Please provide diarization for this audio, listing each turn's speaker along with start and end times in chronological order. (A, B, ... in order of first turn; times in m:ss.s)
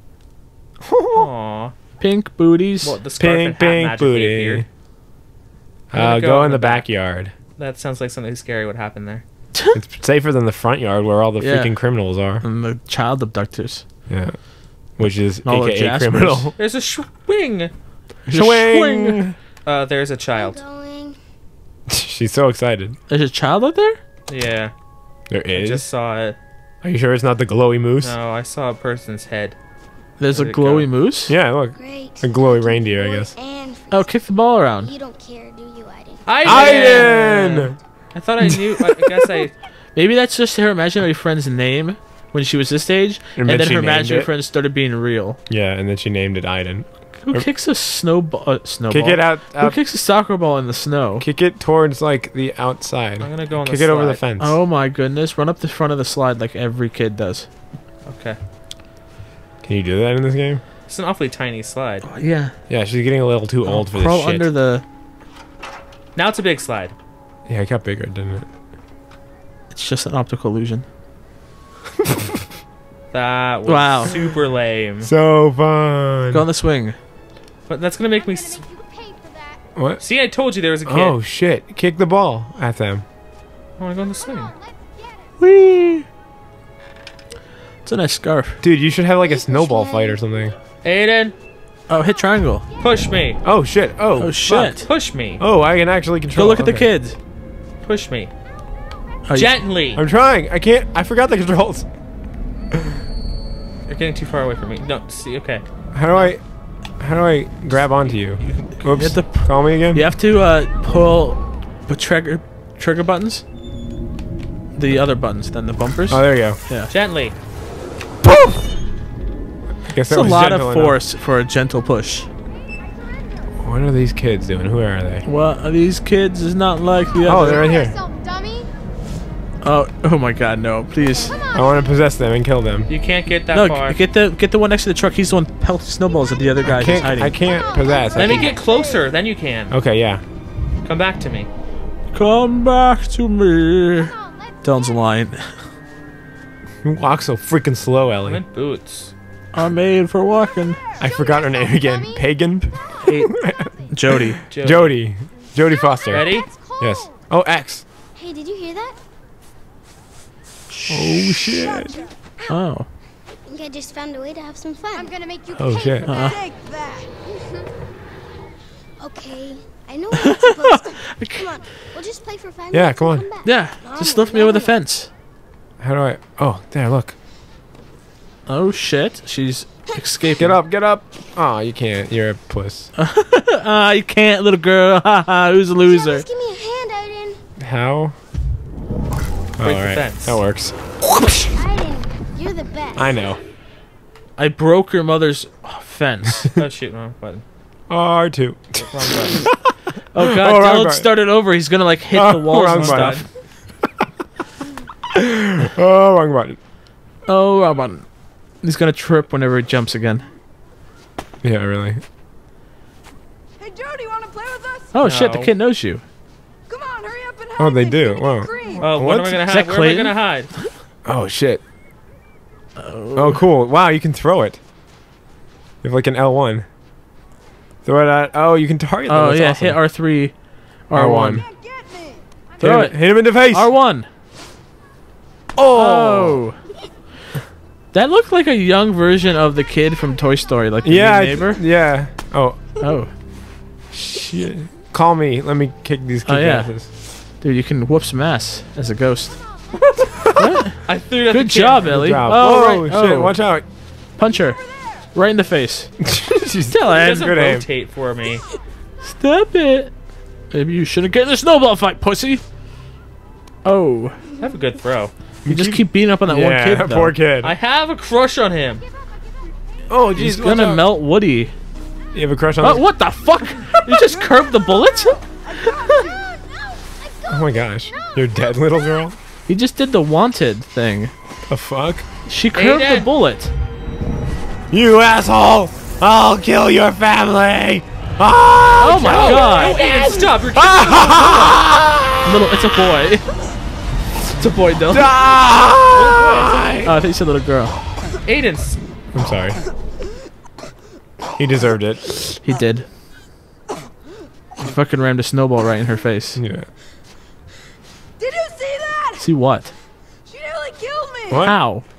0:00.8-0:01.3 A
0:01.1-0:01.7 B
0:02.0-0:03.0 C
0:02.8-0:04.6 B
0:03.2-0:04.7 A
0:05.9-0:07.3 A
0:05.9-0:06.8 B
0:07.6-0:09.2 B
0:09.7-0:12.4 A
0:11.4-0:11.8 C
0:12.4-0:13.8 C
0:14.1-0:14.4 A
0:15.0-0:16.5 A
0:15.4-0:16.5 C
0:16.6-0:17.7 B
0:18.3-0:19.2 C
0:18.3-0:19.4 A
0:19.6-0:20.6 B
0:20.3-0:21.2 D
0:21.9-0:23.0 A
0:23.1-0:24.0 C
0:24.3-0:24.7 B
0:25.3-0:25.9 A
0:25.5-0:26.4 B
0:26.8-0:28.2 A
0:28.0-0:29.6 B
0:30.2-0:31.3 C
0:30.3-0:30.9 B
0:31.3-0:33.3 A
0:31.8-0:36.9 D
0:33.9-0:34.9 C
0:36.2-0:39.5 B
0:36.4-0:37.8 A
0:39.9-0:45.4 C
0:43.4-0:44.3 A
0:45.5-0:47.5 A
0:47.2-0:51.2 C
0:48.9-0:49.8 A
0:51.2-0:54.6 A
0:53.2-0:54.2 B
0:54.4-0:57.5 C
0:58.0-0:58.4 B
0:59.6-1:00.6 A
1:00.9-1:02.0 B
1:02.0-1:02.5 C
1:02.7-1:04.5 A
1:03.6-1:04.8 C
1:06.2-1:06.9 B
1:07.5-1:08.5 A
1:09.7-1:10.8 C
1:13.1-1:15.1 B
1:13.6-1:14.1 C
1:15.0-1:16.4 A
1:16.3-1:17.0 C
1:17.7-1:18.6 B
1:18.3-1:19.6 D
1:19.8-1:20.0 A
1:20.0-1:21.2 B
1:20.8-1:23.0 A
1:23.8-1:24.5 B
1:25.4-1:26.0 C
1:27.8-1:28.6 C
1:28.6-1:30.6 A
1:29.2-1:30.2 D
1:30.8-1:31.3 B
1:31.9-1:32.6 C
1:32.8-1:33.4 B
1:33.4-1:34.8 A
1:34.2-1:34.9 C
1:34.8-1:35.4 B
1:35.4-1:36.9 A
1:36.3-1:37.2 C
1:37.8-1:38.3 B
1:39.2-1:39.6 C
1:39.3-1:40.0 B
1:40.0-1:41.9 A
1:43.9-1:46.3 B
1:45.9-1:46.4 A
1:47.0-1:50.0 A
1:48.4-1:48.7 B
1:48.9-1:53.4 C
1:54.7-1:56.9 C
1:56.1-1:56.6 A
1:56.9-1:57.4 B
1:59.9-2:01.0 A
2:00.0-2:02.3 C
2:03.6-2:05.2 A
2:05.2-2:07.6 C
2:07.2-2:08.0 A
2:07.3-2:08.7 D
2:09.6-2:11.4 C
2:11.0-2:11.9 D
2:11.5-2:12.9 A
2:12.9-2:14.0 B
2:13.5-2:17.4 C
2:16.6-2:18.6 A
2:17.4-2:19.1 D
2:18.1-2:19.7 B
2:19.7-2:20.2 A
2:20.8-2:21.5 B
2:22.1-2:25.6 C
2:24.1-2:24.9 D
2:26.8-2:28.4 A
2:28.2-2:29.1 B
2:29.5-2:30.8 C
2:31.0-2:37.8 A
2:31.0-2:32.2 D
2:33.0-2:33.3 C
2:33.9-2:34.4 C
2:34.5-2:35.0 B
2:35.9-2:37.0 D
2:36.1-2:36.5 B
2:38.1-2:39.0 D
2:40.7-2:41.5 C
2:40.9-2:42.0 A
2:42.5-2:42.9 C
2:43.5-2:46.2 D
2:45.5-2:46.2 A
2:46.0-2:46.4 C
2:46.2-2:47.1 E
2:47.3-2:47.7 D
2:49.0-2:54.7 D
2:50.1-2:51.4 C
2:52.7-2:53.3 A
2:53.4-2:55.1 C
2:55.8-2:57.2 A
2:58.5-3:00.6 C
3:00.4-3:02.9 A
3:03.0-3:06.2 C
3:05.8-3:07.4 D
3:07.6-3:08.1 A
3:09.6-3:11.3 A
3:09.6-3:10.4 B
3:11.5-3:13.1 D
3:13.0-3:13.4 A
3:14.4-3:16.5 C
3:16.6-3:17.4 B
3:17.9-3:19.6 A
3:18.8-3:19.5 B
3:20.1-3:23.2 C
3:20.2-3:21.1 A
3:22.1-3:23.2 A
3:22.7-3:23.2 B
3:25.1-3:26.6 A
3:27.3-3:28.0 C
3:28.6-3:30.2 C
3:31.4-3:32.0 A
3:33.6-3:35.0 E
3:34.9-3:36.0 C
3:35.0-3:35.5 B
3:36.7-3:38.8 E
3:37.6-3:39.4 A
3:38.8-3:40.5 B
3:39.4-3:40.6 C
3:41.0-3:41.6 A
3:42.8-3:43.4 C
3:43.1-3:44.6 A
3:45.8-3:46.6 A
3:47.8-3:49.8 A
3:49.1-3:50.3 C
3:50.9-3:51.4 C
3:50.9-3:51.4 A
3:52.6-3:53.7 A
3:52.6-3:54.1 C
3:55.6-3:56.4 A
3:55.7-3:56.6 C
3:57.9-4:01.6 C
4:00.8-4:02.8 A
4:02.8-4:03.1 C
4:03.9-4:06.9 A
4:06.2-4:09.4 C
4:10.1-4:10.4 A
4:10.4-4:13.4 C
4:10.8-4:12.0 B
4:11.8-4:13.6 A
4:14.2-4:14.6 C
4:15.1-4:15.9 C
4:16.0-4:17.6 A
4:16.7-4:17.3 C
4:16.9-4:18.4 B
4:19.0-4:19.9 C
4:20.5-4:22.4 C
4:23.6-4:24.2 C
4:24.4-4:25.1 B
4:25.4-4:27.5 A
4:25.4-4:27.1 C
4:27.4-4:28.8 B
4:29.9-4:30.8 A
4:30.2-4:31.5 C
4:32.1-4:32.8 A
4:32.6-4:36.1 C
4:35.7-4:36.1 E
4:36.3-4:37.3 D
4:37.3-4:39.2 A
4:39.5-4:41.1 C
4:41.5-4:42.0 A
4:42.2-4:43.5 C
4:42.5-4:43.1 B
4:44.7-4:52.5 A
4:48.8-4:49.8 C
4:49.0-4:51.6 B
4:52.2-4:53.3 C
4:54.3-4:55.1 C
4:54.9-4:56.9 A
4:55.9-4:56.6 B
4:56.8-4:57.8 C
4:58.2-4:58.8 B
4:59.1-4:59.6 A
5:01.3-5:02.3 A
5:02.4-5:02.9 C
5:04.6-5:06.4 C
5:06.4-5:06.7 A
5:08.2-5:09.2 E
5:09.2-5:09.7 C
5:10.3-5:11.4 E
5:11.3-5:11.6 A
5:11.4-5:11.8 C